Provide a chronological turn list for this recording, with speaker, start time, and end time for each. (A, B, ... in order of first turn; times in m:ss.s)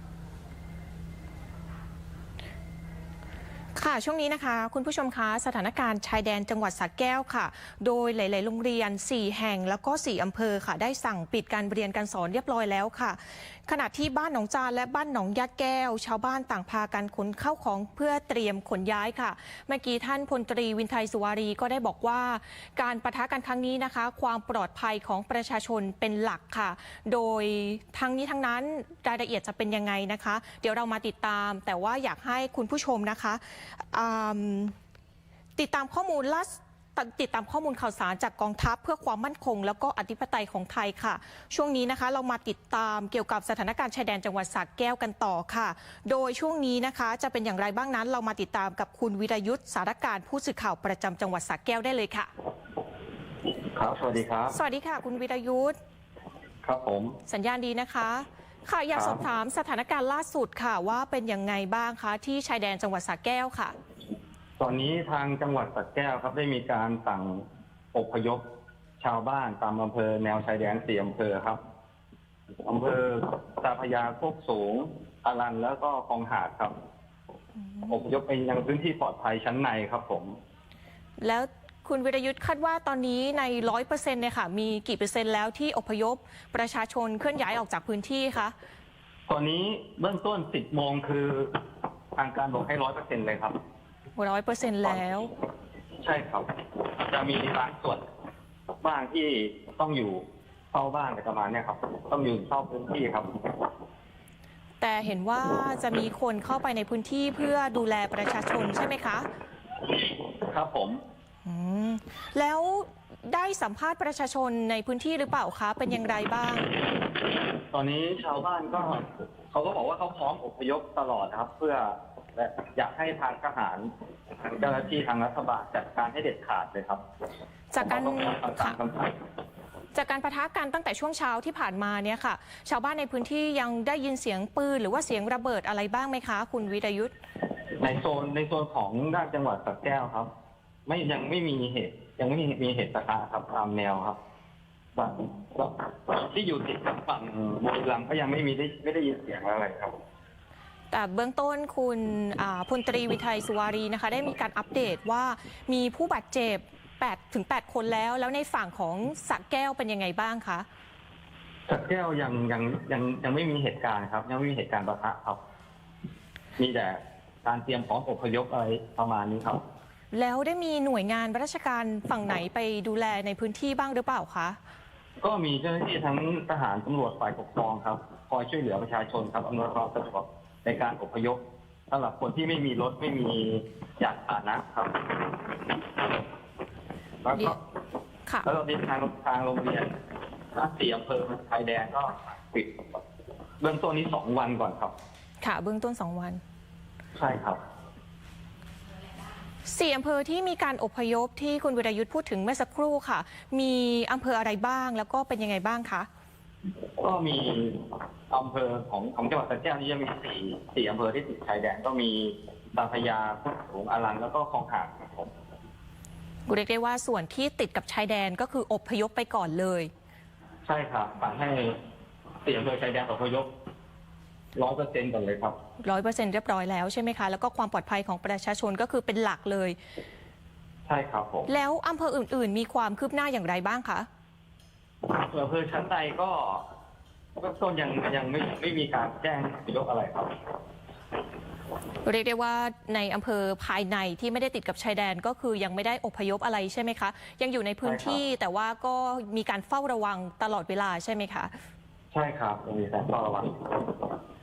0:03.8-0:34.7 A
0:35.6-0:52.3 A
0:53.7-0:54.6 B
0:54.5-0:55.8 A
0:56.6-0:57.2 B
0:57.3-1:03.8 A
1:04.6-1:08.4 B
1:09.0-1:11.6 B
1:12.6-1:16.8 B
1:17.9-1:20.4 B
1:21.2-1:28.5 A
1:29.3-1:31.6 B
1:32.2-1:33.6 B
1:34.2-1:35.3 A
1:36.0-1:38.0 B
1:38.8-1:43.7 B
1:44.8-1:49.3 A
1:49.8-1:51.0 B
1:51.4-1:56.8 A
1:57.3-2:07.0 B
2:07.7-2:08.8 A
2:07.8-2:09.2 B
2:09.9-2:17.1 A
2:17.8-2:20.3 B
2:20.9-2:24.2 B
2:25.0-2:30.0 B
2:30.9-2:40.7 A
2:41.7-2:45.4 B
2:46.6-2:49.6 B
2:50.1-2:54.6 A
2:55.2-3:01.4 B
3:01.9-3:06.2 B
3:07.2-3:07.6 B
3:08.4-3:10.0 B
3:10.5-3:12.8 B
3:13.6-3:15.0 B
3:15.4-3:16.4 A
3:17.2-3:17.6 B
3:19.7-3:26.1 A
3:27.0-3:35.3 B
3:36.5-3:39.9 A
3:40.7-3:41.8 B
3:42.4-3:43.5 B
3:44.6-3:45.6 B
3:45.8-3:49.8 A
3:50.9-3:51.5 B
3:51.5-3:54.1 A
3:55.0-3:56.7 B
3:57.4-4:00.4 B
4:02.0-4:11.5 A
4:07.8-4:08.2 B
4:12.1-4:14.2 B